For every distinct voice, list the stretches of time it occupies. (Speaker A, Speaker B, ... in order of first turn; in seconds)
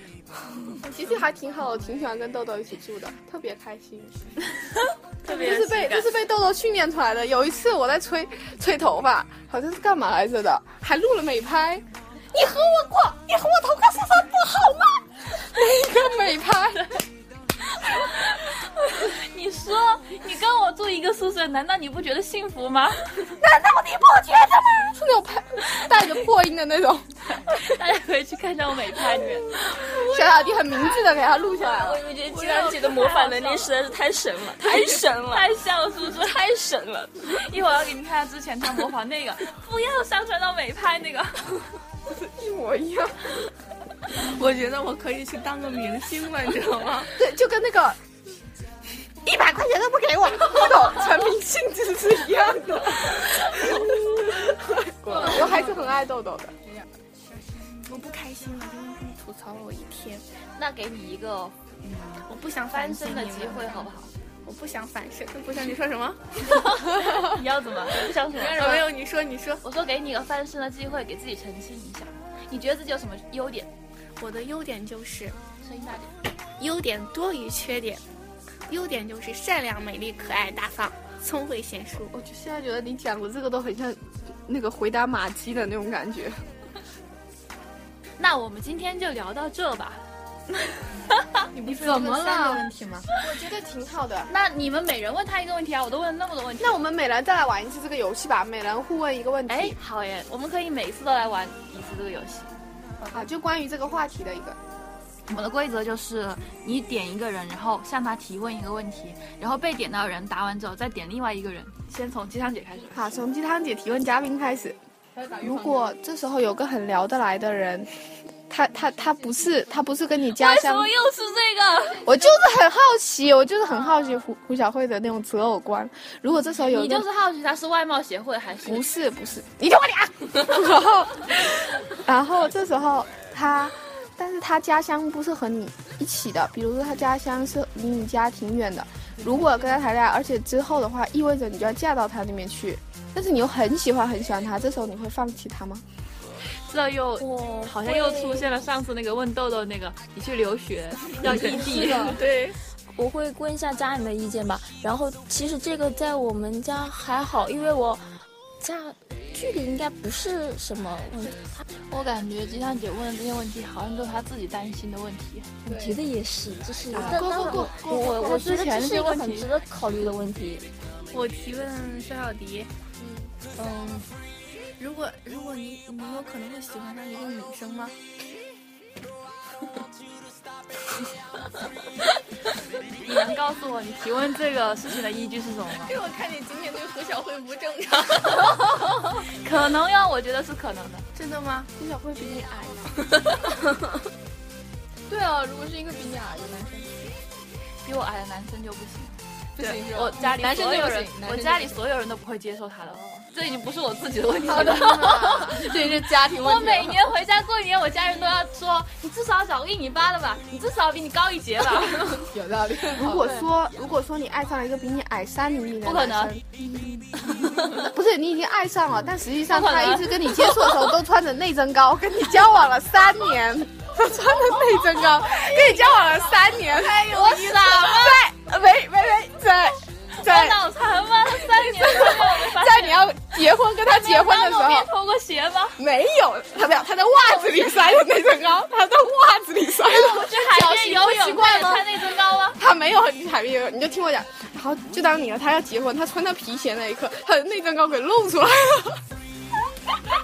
Speaker A: 0.8-4.2, 5.2-11.8, 15.4-16.9, 23.4-24.1, 24.6-27.1, 29.8-32.0, 42.1-43.3, 47.1-48.0, 49.3-56.6, 82.1-86.4, 91.5-94.3, 96.6-99.8, 103.1-104.6, 112.9-114.8, 115.4-117.9, 118.5-120.9, 122.0-127.1, 128.6-145.8, 185.9-188.2, 191.8-192.9, 212.9-216.4, 217.6-230.7, 231.3-234.9, 235.8-241.9, 242.5-249.0
Speaker B: 5.3-6.0, 31.6-35.5, 36.1-37.2, 147.2-148.5, 151.2-158.1, 158.6-161.6, 165.7-170.7
Speaker C: 17.8-23.1, 27.5-30.8, 32.2-33.7, 34.7-36.4, 37.3-41.5, 60.5-64.1, 66.5-68.8, 69.6-73.7, 75.6-76.1, 88.2-90.0, 94.3-96.8, 99.5-102.5, 105.3-113.1, 120.3-122.1, 126.6-128.9, 146.6-152.2, 161.9-165.5, 166.9-169.5, 183.0-185.9, 189.3-191.0, 197.8-205.6, 206.3-212.2, 215.8-216.3, 217.3-217.6, 219.5-220.7, 225.1-226.0, 226.7-228.2, 230.2-233.1, 233.8-235.8, 239.8-242.6
Speaker D: 44.1-47.1, 49.3-49.5, 57.8-60.2, 62.2-63.9, 64.4-66.2, 68.5-69.6, 74.2-75.4, 76.6-78.0, 78.7-82.1, 92.0-92.6, 166.9-168.3, 171.1-172.7, 174.8-177.9, 187.2-187.8, 191.1-191.7
Speaker E: 68.5-68.8, 91.7-92.7, 115.2-115.9, 151.4-152.2, 165.6-166.0, 173.0-173.3, 195.1-197.0, 199.6-201.7, 204.5-207.0, 212.1-213.3